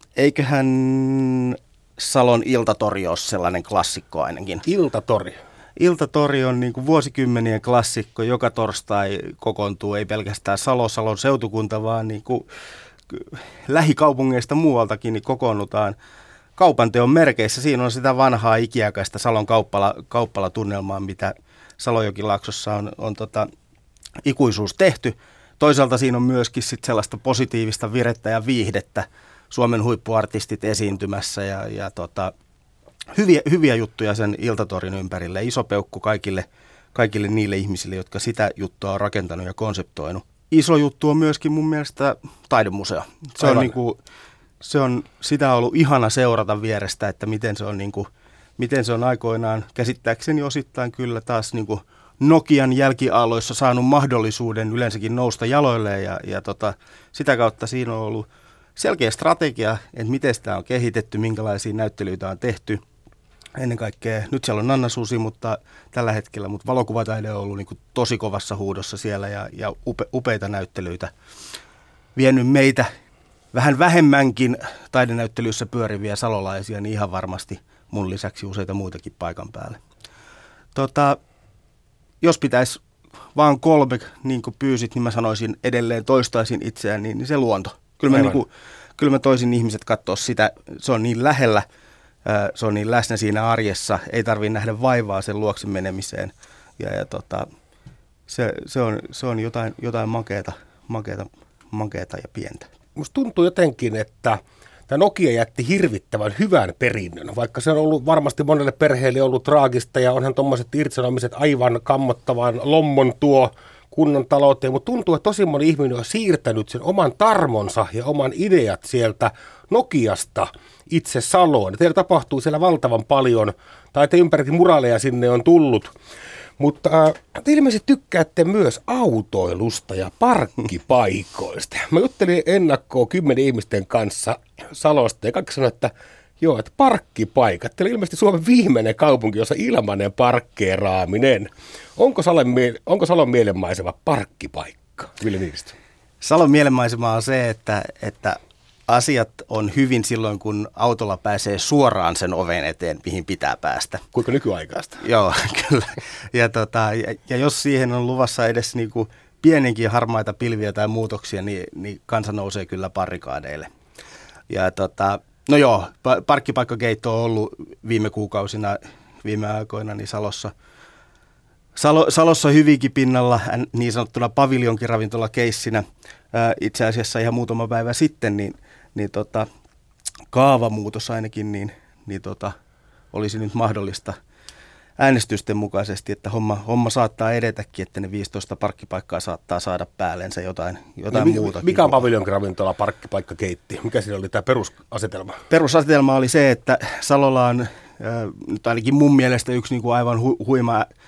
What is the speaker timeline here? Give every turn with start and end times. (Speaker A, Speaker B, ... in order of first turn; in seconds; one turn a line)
Speaker A: 0.2-4.6
Speaker B: 4.6-5.4
Speaker A: 5.8-12.5
Speaker A: 13.1-16.0
Speaker A: 16.6-23.5
Speaker A: 24.2-32.3
Speaker A: 33.1-44.0
Speaker B: 43.4-43.8
Speaker A: 44.6-62.8
Speaker A: 63.6-71.1
Speaker A: 72.1-72.9
Speaker A: 73.5-79.8
Speaker A: 80.8-81.2
Speaker A: 82.2-82.8
Speaker A: 83.3-91.6
Speaker B: 88.1-88.4
Speaker A: 92.2-97.5
Speaker A: 98.3-102.7
Speaker B: 103.0-125.9
Speaker B: 126.6-145.8
Speaker A: 146.2-154.0
Speaker B: 154.1-155.0
Speaker A: 155.0-163.7
Speaker A: 164.5-170.5
Speaker A: 171.8-179.5
Speaker A: 180.3-182.5
Speaker A: 183.1-184.2
Speaker A: 185.0-192.0
Speaker B: 191.1-195.4
Speaker A: 195.5-200.9